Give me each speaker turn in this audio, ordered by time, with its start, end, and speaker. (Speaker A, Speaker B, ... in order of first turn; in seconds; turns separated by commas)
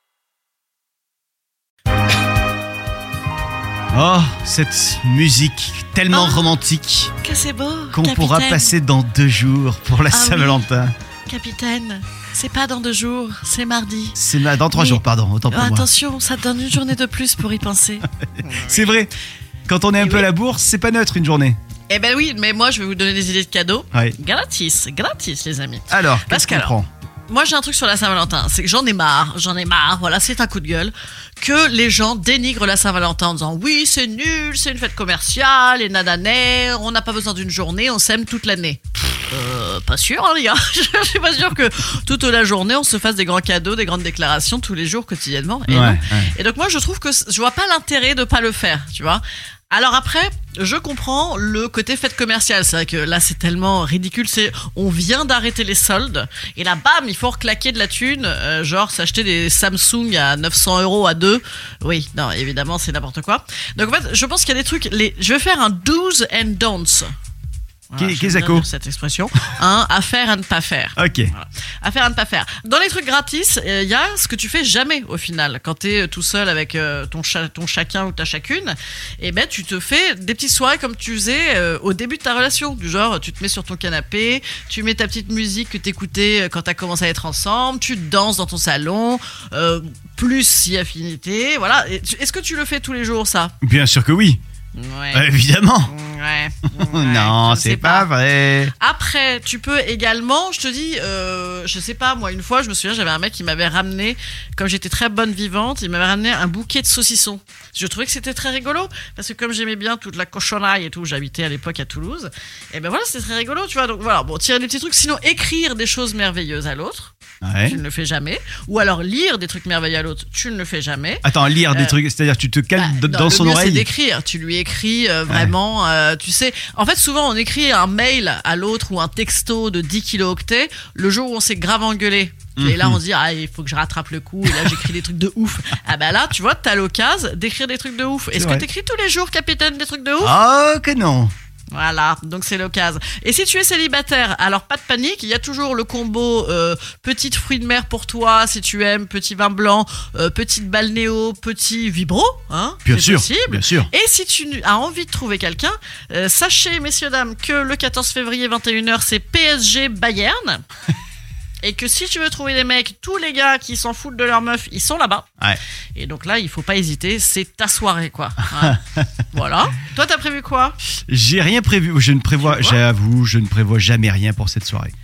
Speaker A: 3.9-7.1, Speaker B: 6.1-6.5, Speaker B: 7.2-8.7, Speaker A: 7.9-10.9, Speaker B: 10.1-10.7, Speaker B: 11.3-19.0, Speaker A: 14.2-15.9, Speaker A: 18.4-19.1, Speaker A: 19.7-21.6, Speaker B: 20.0-20.3, Speaker B: 21.9-26.7, Speaker A: 25.9-26.9, Speaker B: 27.3-67.1, Speaker A: 45.7-46.3, Speaker B: 67.9-93.5, Speaker A: 68.0-68.7, Speaker A: 71.0-71.3, Speaker A: 93.6-94.4, Speaker B: 94.7-95.3, Speaker A: 95.1-95.9, Speaker B: 95.8-98.1, Speaker A: 96.8-98.7, Speaker B: 98.8-117.1, Speaker A: 117.4-117.8, Speaker B: 117.7-122.0, Speaker A: 121.2-123.9, Speaker B: 122.8-140.4, Speaker A: 132.6-133.0, Speaker A: 138.3-138.7, Speaker A: 140.2-141.3, Speaker B: 141.7-160.6, Speaker A: 152.8-153.9, Speaker B: 161.6-165.3, Speaker B: 165.9-170.8, Speaker A: 171.1-174.9, Speaker B: 172.4-172.8